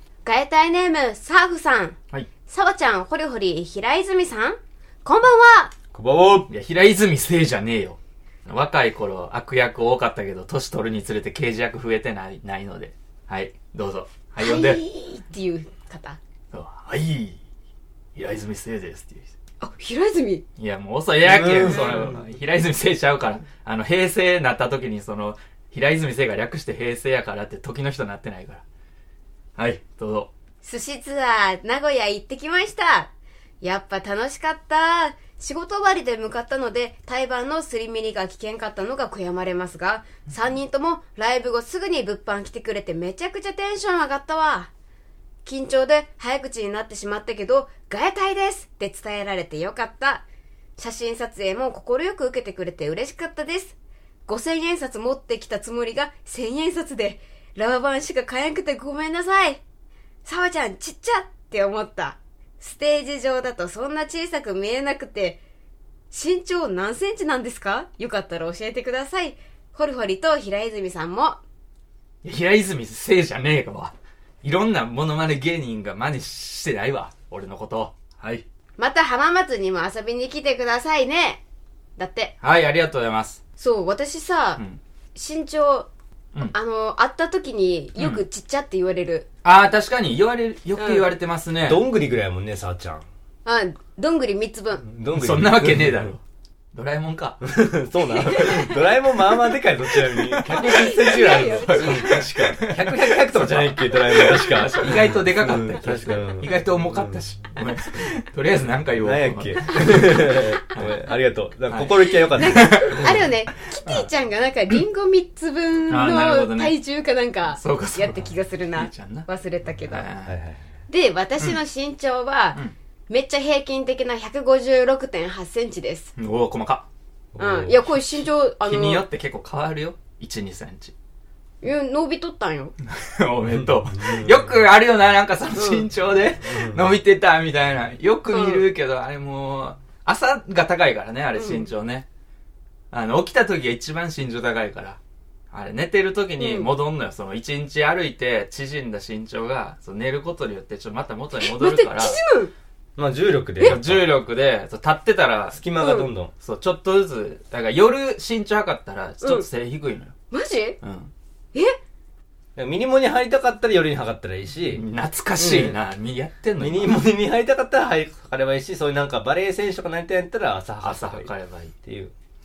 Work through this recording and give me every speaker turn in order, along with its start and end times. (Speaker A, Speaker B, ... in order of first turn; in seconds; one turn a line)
Speaker A: 0.2-2.0
Speaker A: 2.5-5.7
Speaker B: 5.9-6.5
Speaker C: 6.5-14.8
Speaker A: 14.4-16.2
Speaker C: 16.5-17.4
Speaker C: 18.2-19.3
Speaker A: 19.6-20.4
Speaker C: 20.6-28.6
Speaker B: 21.3-22.2
Speaker C: 29.6-30.3
Speaker A: 30.6-33.1
Speaker A: 33.6-44.7
Speaker A: 45.5-50.2
Speaker A: 50.8-53.8
Speaker A: 54.3-59.6
Speaker A: 60.2-65.4
Speaker A: 66.1-71.4
Speaker C: 72.2-78.4
Speaker A: 78.8-81.4
Speaker A: 82.0-82.3
Speaker C: 82.4-83.4
Speaker A: 83.6-84.6
Speaker A: 85.2-85.9
Speaker A: 86.5-89.3
Speaker C: 88.0-88.2
Speaker C: 89.4-91.8
Speaker A: 90.8-91.1
Speaker B: 91.7-93.0
Speaker A: 93.5-94.8
Speaker B: 94.8-96.1
Speaker C: 95.1-96.2
Speaker C: 96.7-97.4
Speaker B: 97.4-107.2
Speaker A: 98.2-98.7
Speaker A: 100.5-102.2
Speaker C: 100.6-110.9
Speaker B: 109.0-113.2
Speaker C: 111.7-113.0
Speaker A: 112.3-120.1
Speaker C: 113.8-114.1
Speaker C: 115.9-116.8
Speaker C: 117.5-119.3
Speaker C: 119.8-120.4
Speaker B: 120.3-120.6
Speaker A: 120.9-126.1
Speaker C: 126.2-126.9
Speaker B: 127.3-127.8
Speaker A: 127.4-129.0
Speaker C: 128.6-130.9
Speaker A: 131.6-132.7
Speaker C: 132.8-142.1
Speaker B: 134.1-134.4
Speaker B: 136.5-136.8
Speaker A: 138.3-138.7
Speaker A: 141.3-141.7
Speaker C: 142.9-145.0
Speaker C: 145.5-152.2
Speaker A: 146.4-146.7
Speaker A: 151.4-152.5
Speaker B: 153.0-154.1
Speaker C: 153.6-155.6
Speaker B: 155.5-156.3
Speaker A: 155.8-156.1
Speaker C: 156.4-160.1
Speaker A: 159.2-159.5
Speaker A: 160.3-160.8
Speaker C: 160.8-161.1
Speaker B: 162.6-164.8
Speaker C: 164.7-167.0
Speaker B: 165.4-165.8
Speaker B: 166.6-171.3
Speaker C: 170.8-171.7
Speaker B: 171.8-172.1